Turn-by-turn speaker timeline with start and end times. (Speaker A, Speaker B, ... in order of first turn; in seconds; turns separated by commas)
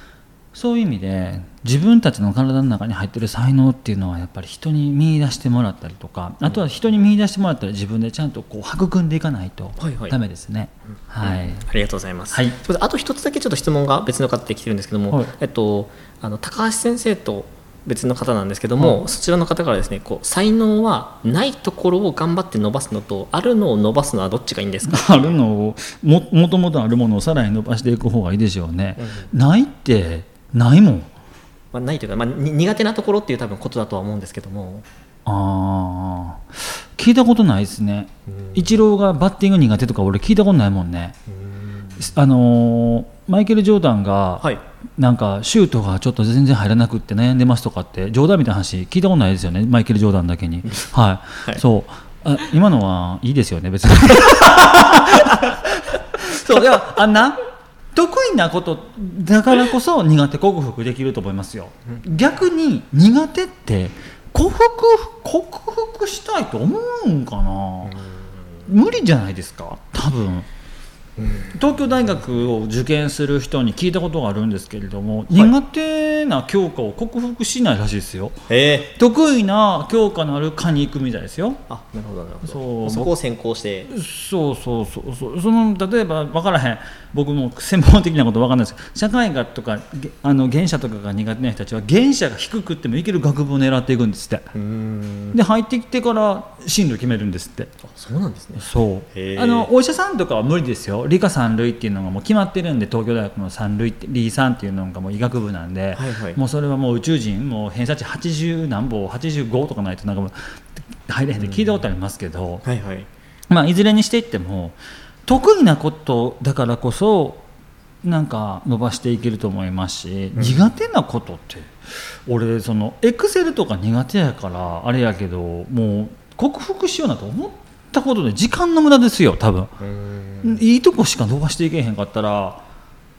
Speaker A: 0.5-11.7, Speaker B: 9.8-10.2, Speaker B: 11.2-25.4, Speaker A: 12.3-12.6, Speaker A: 18.8-19.1, Speaker A: 24.8-31.1, Speaker B: 29.0-29.3, Speaker B: 31.7-34.9, Speaker A: 35.3-41.2, Speaker B: 38.3-38.8, Speaker B: 41.3-42.1, Speaker A: 42.0-57.4, Speaker A: 57.9-68.0, Speaker B: 67.8-68.7, Speaker A: 68.7-70.5, Speaker B: 71.2-72.5, Speaker A: 71.5-78.4, Speaker B: 78.5-78.9, Speaker A: 78.9-81.6, Speaker B: 81.7-83.9, Speaker A: 82.4-83.1, Speaker A: 83.9-94.5, Speaker B: 94.5-95.4, Speaker A: 95.3-97.7, Speaker B: 97.8-99.7, Speaker A: 98.6-112.7, Speaker B: 105.9-106.4, Speaker B: 111.4-111.8, Speaker B: 112.6-113.1, Speaker A: 113.5-117.5, Speaker A: 118.0-129.7, Speaker B: 120.4-120.7, Speaker B: 129.8-130.6, Speaker A: 130.4-132.6